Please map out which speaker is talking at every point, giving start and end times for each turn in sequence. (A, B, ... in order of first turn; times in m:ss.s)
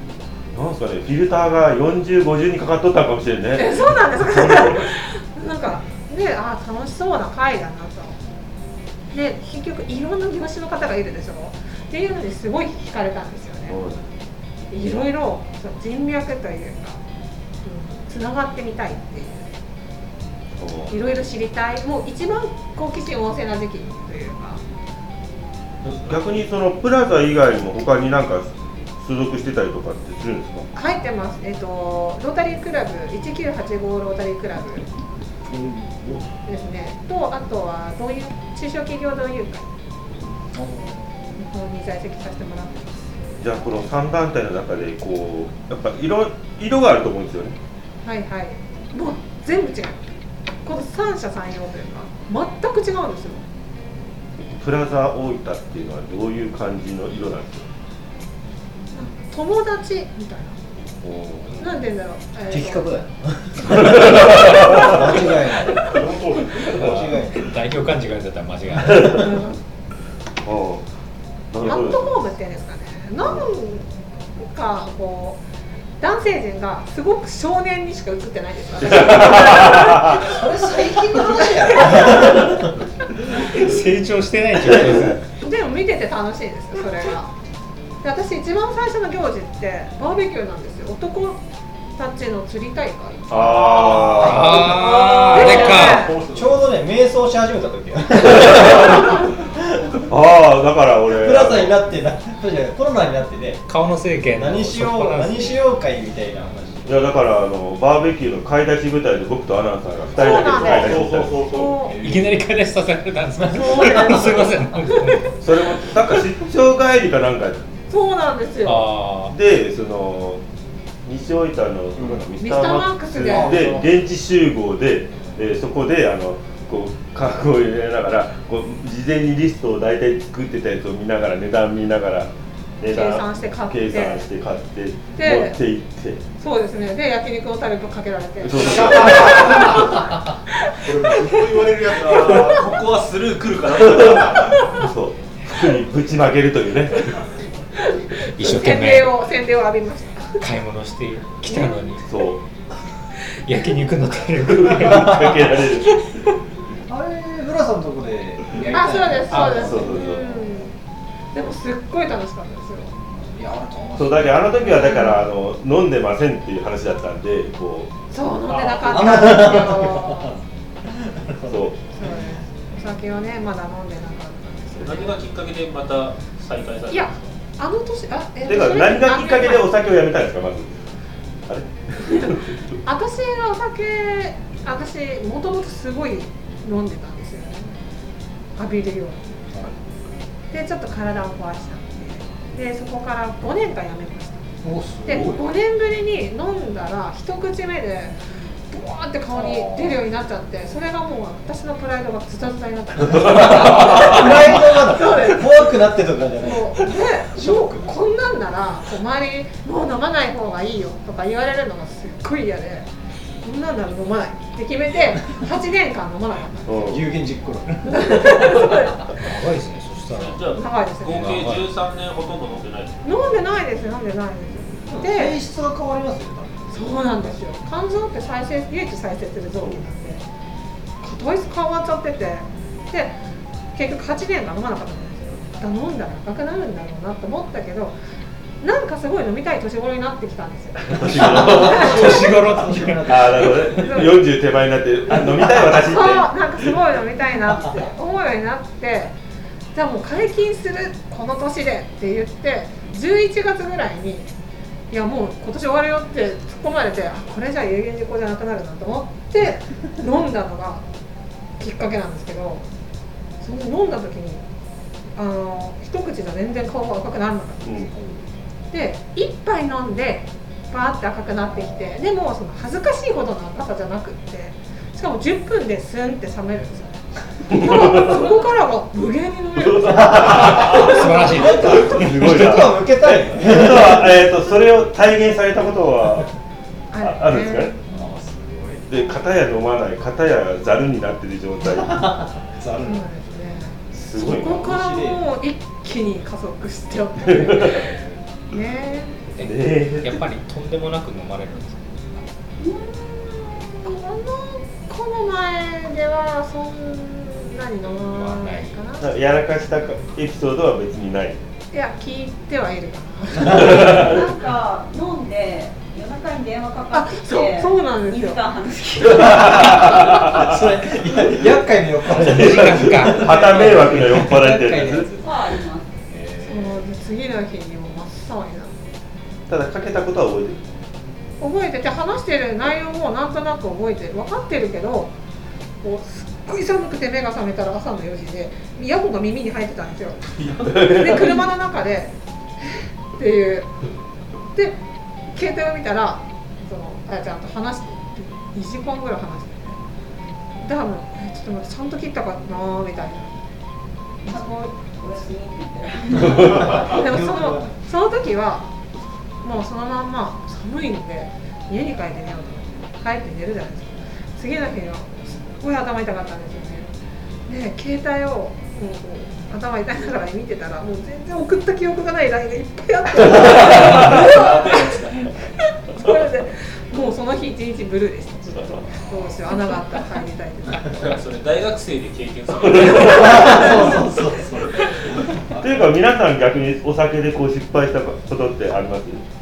0:00.5-0:04.9 A
0:03.6-0:08.2 B
0:09.1-0:13.8 B
0:13.7-0:14.1 A
0:14.7-0:17.0 B
0:17.6-0:19.5 B
0:20.6-0:20.9 A
0:20.9-0:24.6 B
0:25.8-0:30.7 A
0:30.7-0:34.9 B
0:35.5-0:36.3 C
0:36.5-0:39.7 B
0:40.5-0:41.1 C
0:41.4-0:43.0 B
0:43.4-0:47.6 A
0:48.0-0:50.0 B
0:50.6-0:53.5 B
0:54.4-0:57.7 A
0:58.9-1:00.6 B
1:01.0-1:01.7 A
1:01.6-1:03.0 B
1:02.5-1:06.0 C
1:03.7-1:05.0 A
1:04.7-1:05.0 B
1:05.9-1:06.8 D
1:06.6-1:09.3 E
1:06.7-1:07.5 C
1:06.8-1:07.1 A
1:09.1-1:09.6 B
1:10.4-1:10.9 A
1:11.5-1:12.1 A
1:11.6-1:15.4 B
1:16.0-1:20.2 B
1:18.8-1:20.2 A
1:19.5-1:22.7 C
1:21.2-1:22.3 B
1:23.2-1:25.3 E
1:24.8-1:25.1 C
1:25.4-1:27.3 B
1:28.0-1:31.4 B
1:32.0-1:34.7 B
1:33.3-1:34.5 A
1:33.8-1:34.8 C
1:34.2-1:36.1 E
1:34.8-1:36.7 D
1:35.3-1:36.2 B
1:36.3-1:39.5 C
1:38.3-1:39.0 A
1:40.1-1:41.7 A
1:41.1-1:43.6 C
1:43.7-1:45.6 E
1:44.3-1:46.9 C
1:46.8-1:51.4 A
1:50.1-1:52.0 B
1:50.2-1:51.9 D
1:51.9-1:55.4 E
1:51.9-1:52.3 C
1:53.5-1:54.3 B
1:53.8-1:54.4 C
1:54.9-1:55.3 B
1:55.4-1:57.7 A
1:57.9-1:58.9 B
1:58.6-1:59.3 E
1:59.3-2:00.4 A
2:01.0-2:16.2 A
2:02.0-2:02.2 C
2:02.4-2:03.7 B
2:03.3-2:03.9 C
2:12.9-2:14.2 B
2:15.2-2:15.6 B
2:16.4-2:20.0 B
2:18.4-2:19.9 A
2:18.6-2:20.0 D
2:20.5-2:21.7 B
2:20.8-2:22.7 D
2:22.0-2:24.6 F
2:23.8-2:27.3 A
2:27.8-2:30.4 B
2:28.2-2:29.2 E
2:30.4-2:32.0 E
2:31.5-2:31.8 B
2:32.0-2:32.4 A
2:33.4-2:36.2 E
2:34.4-2:35.9 A
2:36.9-2:40.6 C
2:38.7-2:40.7 B
2:39.3-2:39.9 E
2:39.5-2:40.3 A
2:41.3-2:43.0 B
2:43.1-2:44.6 C
2:44.0-2:48.0 A
2:44.7-2:45.2 B
2:48.1-2:50.4 B
2:48.5-2:49.0 D
2:48.9-2:52.2 C
2:51.5-2:51.7 A
2:51.9-2:55.2 B
2:54.8-2:57.4 F
2:56.9-2:59.7 B
2:58.5-3:00.8 A
3:01.5-3:02.6 A
3:02.0-3:07.8 B
3:08.6-3:09.3 B
3:10.5-3:14.5 B
3:14.6-3:15.4 C
3:15.0-3:25.7 B
3:19.3-3:20.0 C
3:23.2-3:28.0 C
3:23.3-3:24.2 A
3:26.4-3:36.9 B
3:36.7-3:37.0 A
3:36.8-3:38.7 C
3:37.9-3:38.9 B
3:39.1-3:41.7 E
3:40.1-3:43.0 F
3:40.6-3:41.4 B
3:43.0-3:45.4 B
3:44.9-3:47.4 C
3:46.7-3:50.2 B
3:49.6-3:49.8 A
3:51.0-3:53.2 B
3:53.7-3:58.0 B
3:58.6-4:02.3 B
4:00.8-4:02.2 A
4:01.0-4:04.0 C
4:01.6-4:03.2 E
4:03.1-4:06.3 A
4:03.8-4:04.2 B
4:05.1-4:05.9 C
4:05.9-4:09.2 B
4:09.7-4:14.3 B
4:14.9-4:20.9 B
4:21.6-4:22.7 B
4:23.4-4:24.4 B
4:25.1-4:27.9 B
4:27.9-4:28.3 C
4:28.7-4:41.3 B
4:37.5-4:38.3 A
4:39.6-4:46.3 A
4:40.1-4:42.3 E
4:41.0-4:44.2 C
4:46.9-4:47.9 B
4:47.0-4:47.7 A
4:47.9-4:48.9 C
4:48.9-4:52.1 A
4:51.6-4:53.1 C
4:52.8-4:58.0 B
4:53.9-4:54.7 A
4:54.1-4:55.2 C
4:57.2-4:57.8 A
4:58.5-4:59.2 B
4:59.3-5:02.0 E
4:59.4-5:00.2 A
5:02.7-5:09.0 B
5:08.0-5:08.8 E
5:09.0-5:11.4 A
5:11.7-5:14.2 B
5:13.5-5:20.2 G
5:13.5-5:14.2 A
5:16.9-5:19.2 B
5:19.2-5:25.5 C
5:22.1-5:25.1 A
5:22.2-5:24.4 E
5:25.2-5:25.9 G
5:26.2-5:26.8 C
5:26.4-5:28.8 B
5:29.5-5:30.6 A
5:31.4-5:35.1 B
5:35.8-5:42.2 B
5:40.6-5:41.4 A
5:42.7-5:43.7 B
5:44.5-5:44.8 B
5:45.3-5:49.8 B
5:50.5-5:53.3 B
5:54.2-5:54.6 B
5:54.3-5:56.9 G
5:56.2-5:57.8 C
5:56.7-5:58.7 B
5:59.4-6:06.9 B
6:07.5-6:21.2 B
6:13.4-6:15.2 F
6:20.9-6:24.2 F
6:22.6-6:23.6 A
6:22.9-6:25.9 C
6:25.5-6:29.3 A